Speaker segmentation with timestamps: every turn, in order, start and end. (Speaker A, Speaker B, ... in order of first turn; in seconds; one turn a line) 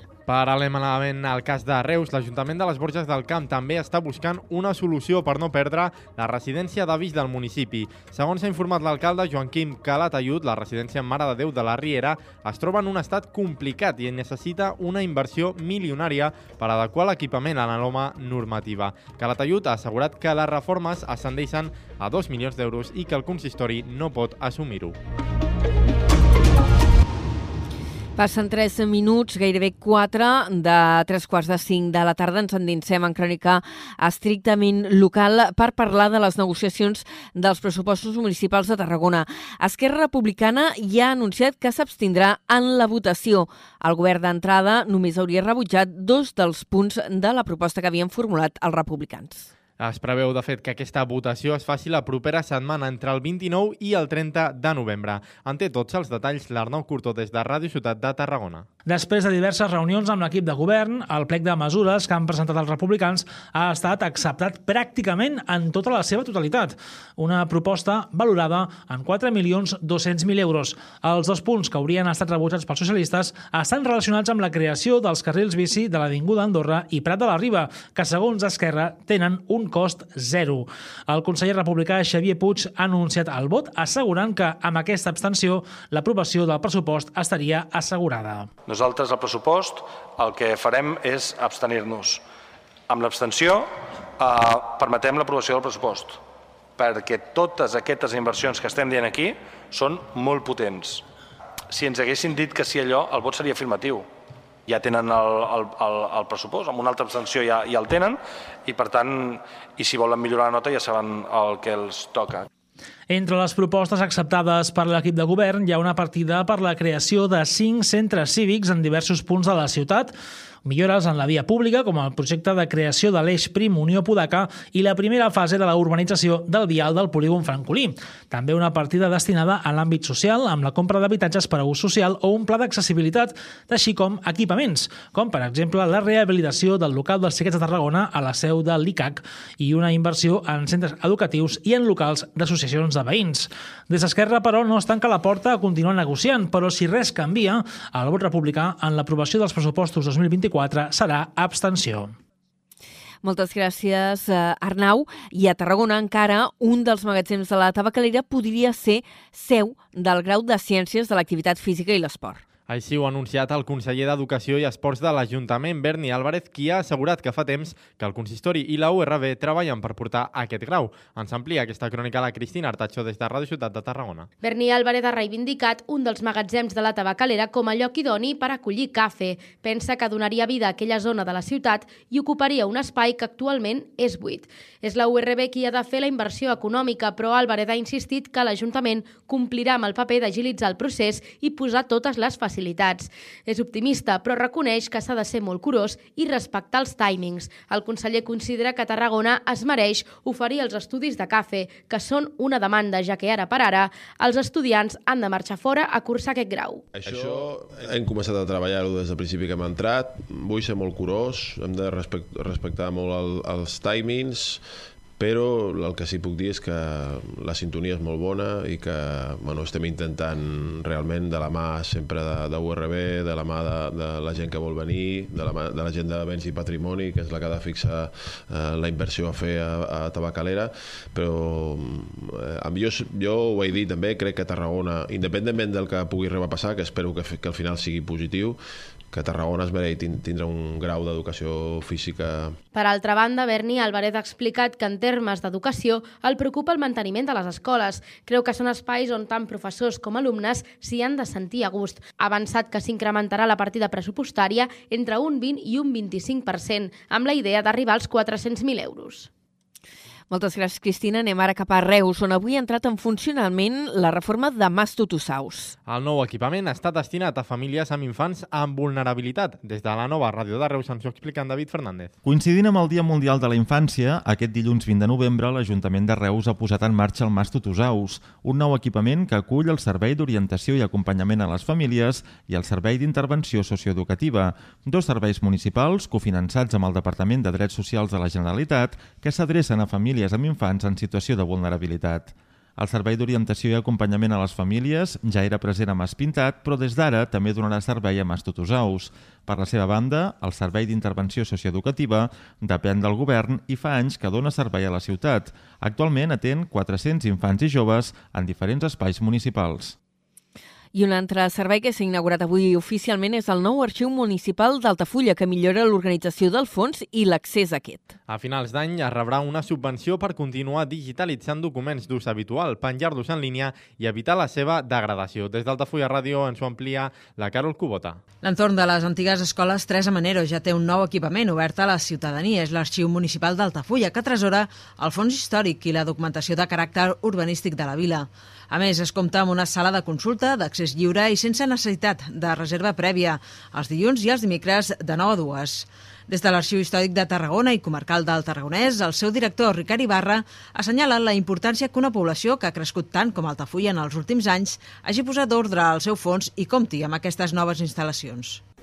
Speaker A: 0.3-24.9
Speaker B: 28.2-49.5
Speaker A: 49.8-58.6
Speaker C: 58.9-88.5
Speaker D: 88.7-92.2
Speaker D: 92.9-96.2
Speaker D: 96.8-101.0
Speaker D: 101.7-104.0
Speaker D: 104.7-112.5
Speaker C: 113.1-120.1
Speaker C: 120.6-152.1
Speaker B: 153.2-162.4
Speaker A: 162.7-174.3
Speaker E: 174.4-206.8
Speaker F: 206.9-214.6
Speaker F: 215.2-238.6
Speaker F: 239.1-242.6
Speaker E: 242.7-259.3
Speaker B: 260.3-265.8
Speaker A: 265.9-272.1
Speaker G: 272.2-309.9
Speaker B: 310.9-318.1
Speaker A: 318.3-328.2
Speaker H: 328.4-358.6